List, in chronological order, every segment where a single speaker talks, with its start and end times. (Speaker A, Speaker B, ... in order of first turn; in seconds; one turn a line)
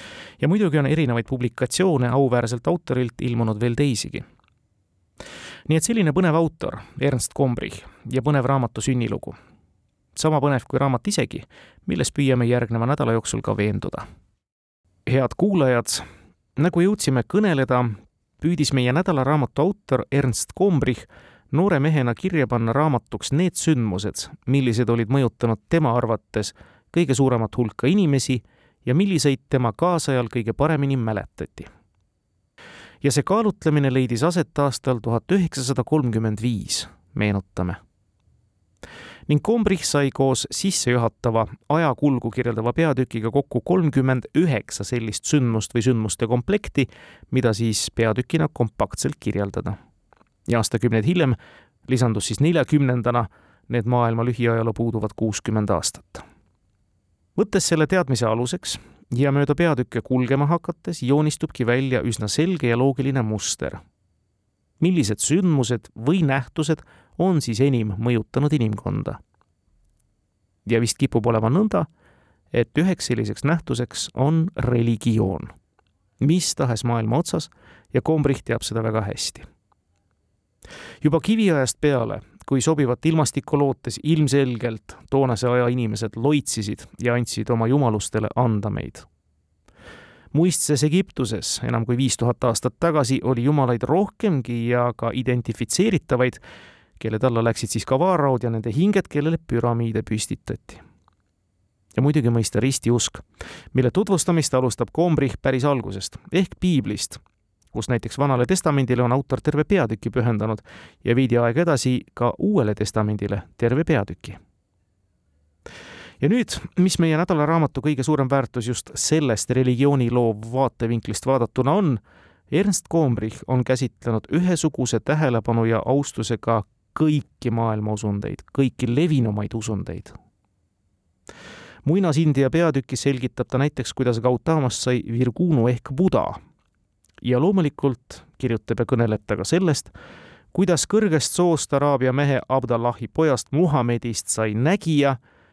Speaker A: 0.4-4.2
Speaker A: 5.7-9.4
Speaker A: 10.2-14.1
Speaker A: 15.1-16.0
Speaker A: 16.6-31.7
Speaker A: 33.0-37.8
Speaker A: 39.3-49.8
Speaker A: 50.5-56.2
Speaker A: 57.4-63.8
Speaker A: 64.8-69.2
Speaker A: 70.7-71.9
Speaker A: 72.5-75.5
Speaker A: 76.2-79.5
Speaker A: 81.0-89.1
Speaker A: 90.3-96.4
Speaker A: 97.0-100.8
Speaker A: 102.0-107.2
Speaker A: 107.7-114.4
Speaker A: 116.2-130.1
Speaker A: 131.8-136.4
Speaker A: 137.2-139.9
Speaker A: 140.5-145.2